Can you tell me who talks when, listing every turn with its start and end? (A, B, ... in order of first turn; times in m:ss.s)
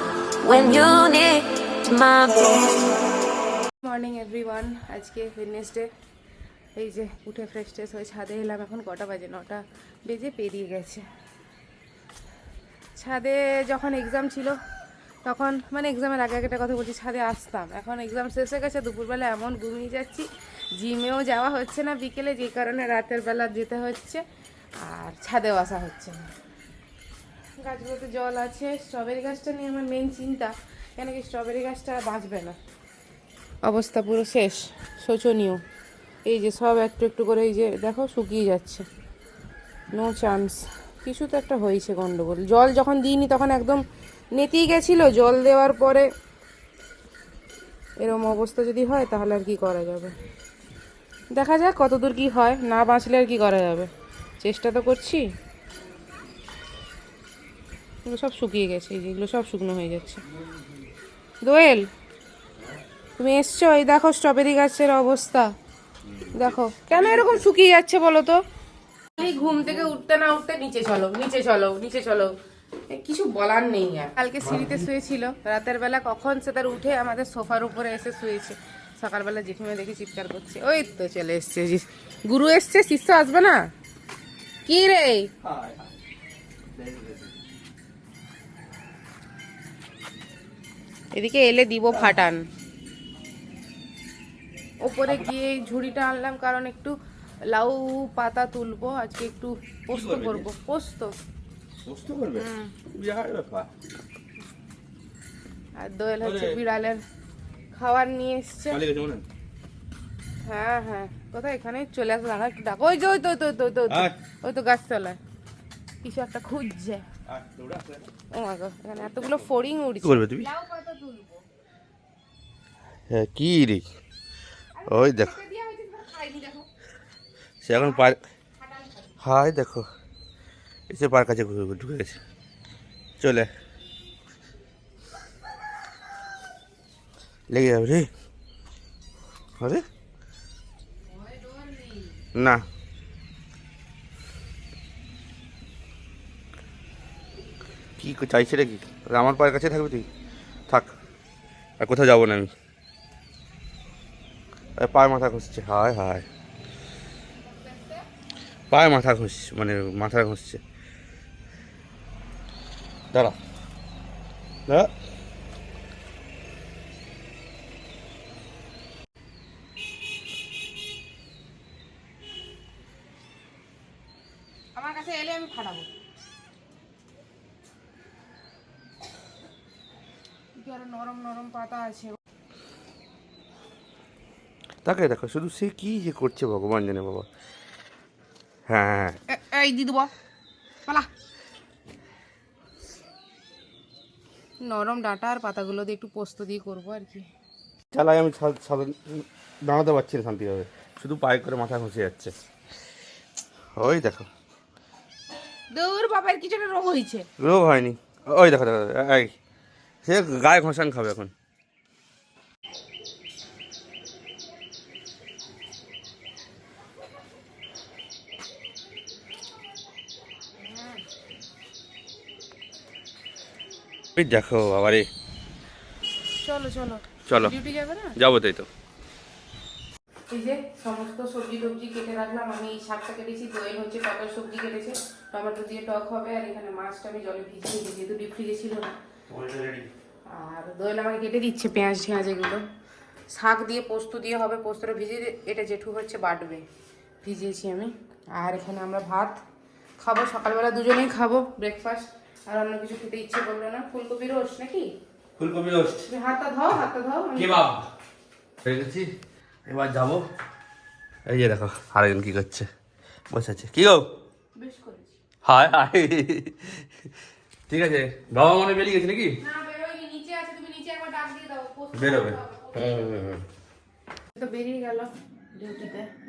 0:00.4-0:02.7 A
0:03.8-0:05.9 B
0:06.8-0:11.0 B
0:12.9-0:14.6 B
0:15.2-0:24.2 B
0:24.8-0:26.3 B
0:27.6-0:32.6 B
0:33.6-0:35.6 B
0:36.2-0:38.9 B
0:39.9-0:46.1 B
0:48.0-0:50.1 B
0:51.3-0:55.2 B
0:58.0-1:00.2 B
1:01.4-1:01.9 B
1:03.2-1:05.5 B
1:06.0-1:07.5 C
1:06.3-1:08.4 B
1:09.2-1:12.3 B
1:12.9-1:23.6 B
1:14.4-1:14.9 C
1:24.6-1:25.3 B
1:25.4-1:25.9 C
1:26.7-1:27.3 C
1:31.1-1:32.4 B
1:34.8-1:37.0 B
1:37.5-1:41.1 B
1:39.9-1:40.5 C
1:41.8-1:43.7 C
1:42.3-1:42.7 B
1:45.8-1:47.0 B
1:46.2-1:46.6 C
1:47.7-1:48.8 B
1:48.7-1:49.2 C
1:50.4-1:55.2 B
1:53.9-1:54.1 C
1:56.0-1:57.0 B
1:57.3-1:58.1 C
1:58.3-2:01.4 B
2:00.0-2:00.5 C
2:03.1-2:03.9 C
2:04.7-2:06.7 B
2:04.9-2:05.3 C
2:07.6-2:08.2 C
2:07.7-2:09.1 B
2:09.2-2:09.9 C
2:10.9-2:12.2 C
2:13.2-2:13.5 C
2:17.5-2:18.1 C
2:21.1-2:22.2 B
2:22.3-2:22.6 C
2:28.0-2:30.1 C
2:31.8-2:32.5 C
2:34.8-2:36.2 C
2:38.7-2:40.6 C
2:54.7-2:55.9 B
3:00.6-3:02.2 B
3:04.8-3:07.3 C
3:08.7-3:09.2 C
3:09.3-3:10.1 B
3:14.6-3:17.2 B
3:17.9-3:22.3 C
3:23.8-3:24.3 C
3:25.7-3:27.3 B
3:27.4-3:29.3 C
3:30.0-3:31.3 C
3:40.6-3:41.0 B
3:44.2-3:45.1 C
3:46.4-3:48.2 B
3:47.3-3:47.5 C
3:48.2-3:48.7 C
3:50.3-3:58.9 B
3:59.3-3:59.9 C
4:00.2-4:02.6 B
4:03.3-4:06.6 B
4:07.2-4:09.4 B
4:10.0-4:14.9 B
4:15.4-4:16.1 C
4:16.1-4:17.6 B
4:17.4-4:17.9 C
4:18.6-4:19.1 C
4:19.7-4:20.2 C
4:21.3-4:22.7 C
4:23.3-4:24.1 C
4:24.6-4:25.2 B
4:25.4-4:26.9 C
4:27.7-4:29.4 C
4:29.4-4:33.0 B
4:31.9-4:33.4 C
4:34.3-4:36.1 B